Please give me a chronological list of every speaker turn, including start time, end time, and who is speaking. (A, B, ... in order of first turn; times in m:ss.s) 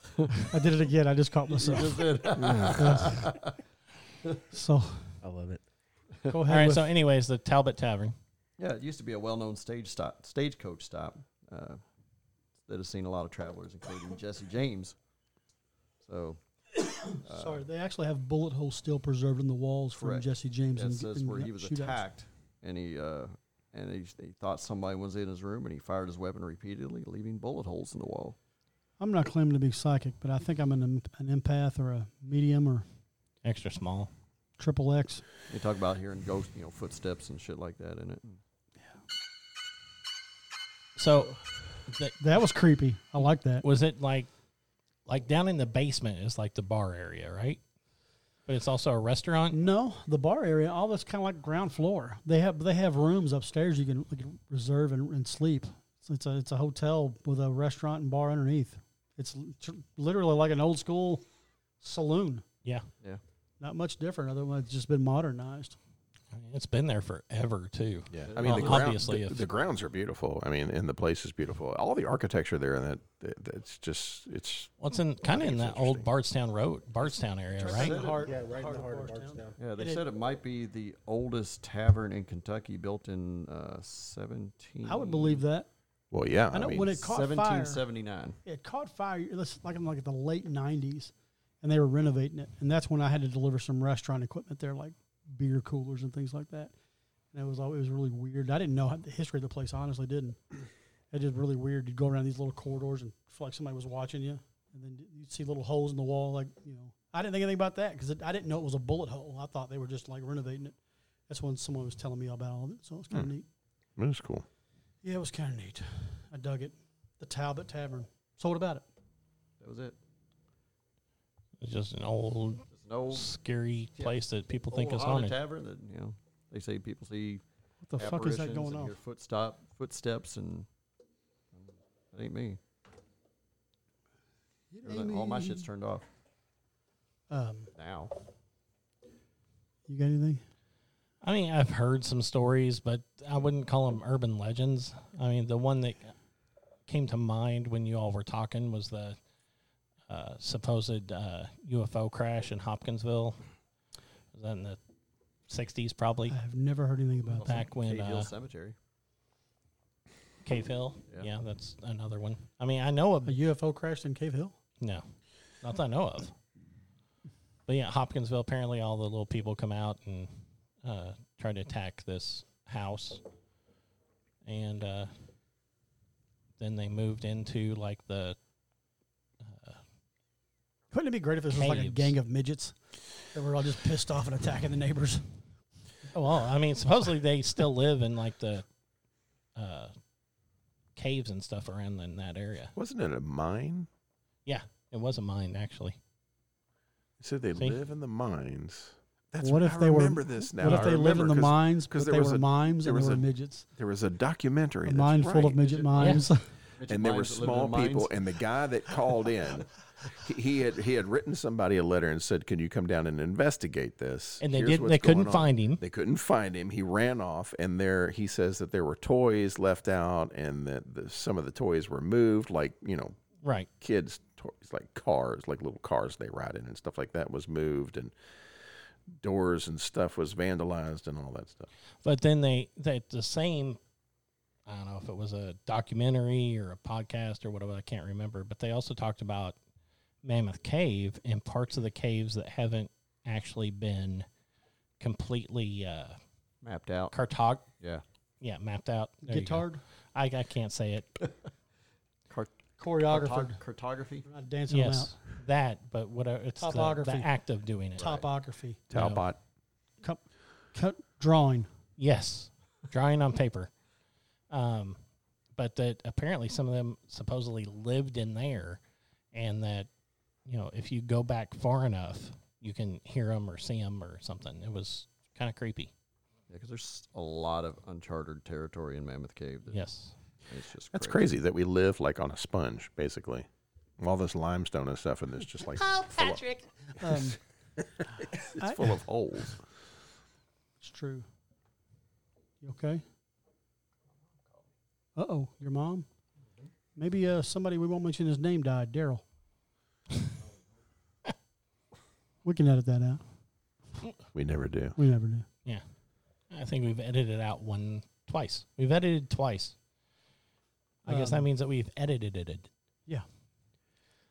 0:00.5-0:03.3 A
0:01.5-0:03.5 B
0:04.5-0:05.2 A
0:05.2-0:05.6 C
0:06.2-0:06.9 A
0:06.5-0:08.1 D
0:08.6-0:11.8 B
0:12.6-0:15.0 B
0:16.0-0:16.4 B
0:17.0-0:17.6 B
0:17.3-0:22.0 A
0:19.9-0:28.4 B
0:29.0-0:32.8 A
0:33.4-0:34.1 D
0:34.6-0:35.2 A
0:35.5-0:38.4 B
0:41.0-0:42.2 D
0:42.2-0:43.6 A
0:43.6-0:44.3 D
0:45.0-0:47.6 D
0:48.5-0:49.6 D
0:49.5-1:01.2 A
1:01.8-1:02.4 A
1:03.6-1:05.8 A
1:06.3-1:09.5 D
1:08.1-1:14.7 E
1:08.2-1:08.8 B
1:14.8-1:18.0 D
1:15.2-1:16.1 E
1:17.6-1:20.0 A
1:17.6-1:18.3 B
1:18.0-1:19.6 C
1:19.6-1:25.4 B
1:24.8-1:25.7 A
1:26.1-1:27.0 E
1:26.5-1:27.8 A
1:27.0-1:28.4 B
1:28.4-1:36.7 A
1:37.3-1:40.4 A
1:41.1-1:53.4 A
1:54.0-1:54.4 E
1:55.0-1:58.8 A
1:59.6-2:00.0 B
2:01.6-2:05.4 D
2:02.7-2:03.3 B
2:04.7-2:07.4 B
2:07.8-2:09.0 A
2:08.0-2:10.7 B
2:11.5-2:12.6 B
2:14.7-2:15.7 A
2:14.8-2:16.0 B
2:17.3-2:17.7 A
2:17.7-2:18.1 B
2:19.9-2:20.4 A
2:21.2-2:26.1 D
2:26.9-2:29.2 D
2:30.1-2:33.4 D
2:34.3-2:34.8 D
2:35.5-2:36.4 D
2:36.3-2:37.6 A
2:37.3-2:38.8 B
2:37.4-2:38.3 D
2:40.4-2:43.4 D
2:43.2-2:44.6 A
2:45.6-2:46.3 D
2:47.7-2:50.3 D
2:50.8-2:53.2 D
2:54.4-2:55.1 D
2:56.6-2:58.4 D
2:59.4-2:59.8 D
3:00.9-3:05.3 A
3:01.5-3:02.2 D
3:06.1-3:08.6 D
3:09.5-3:09.9 D
3:11.0-3:12.7 D
3:12.8-3:13.9 E
3:14.4-3:16.0 D
3:17.2-3:25.6 E
3:19.4-3:23.6 A
3:24.8-3:26.5 A
3:25.6-3:28.2 B
3:26.0-3:26.2 D
3:26.9-3:43.2 E
3:34.4-3:35.8 D
3:43.4-3:43.7 D
3:43.8-3:48.1 E
3:49.2-3:51.7 E
3:52.0-3:53.8 D
3:54.6-3:59.6 D
4:00.2-4:04.2 D
4:05.0-4:06.2 D
4:06.6-4:07.1 B
4:07.1-4:07.7 D
4:08.4-4:11.2 D
4:09.2-4:09.8 A
4:12.3-4:14.3 B
4:12.8-4:13.6 A
4:14.2-4:15.2 A
4:14.7-4:18.1 D
4:16.6-4:17.3 A
4:18.0-4:18.2 B
4:18.0-4:18.8 A
4:18.9-4:19.4 E
4:18.9-4:19.2 D
4:20.7-4:21.7 A
4:22.0-4:23.7 D
4:24.5-4:25.0 D
4:25.6-4:28.8 D
4:29.3-4:29.9 D
4:30.4-4:35.9 D
4:36.5-4:39.9 B
4:39.7-4:40.1 D
4:40.4-4:41.3 B
4:40.9-4:43.5 E
4:44.0-4:46.5 E
4:46.2-4:46.5 D
4:47.0-4:47.4 A
4:47.0-4:47.3 E
4:48.2-4:49.0 A
4:48.2-4:49.6 E
4:50.8-4:51.2 A
4:52.6-4:53.0 A
4:55.1-4:56.0 A
4:57.0-4:59.2 A
5:02.4-5:03.2 A
5:04.3-5:05.0 E
5:05.0-5:05.4 A
5:06.5-5:09.7 D
5:11.0-5:12.7 D
5:11.1-5:11.5 A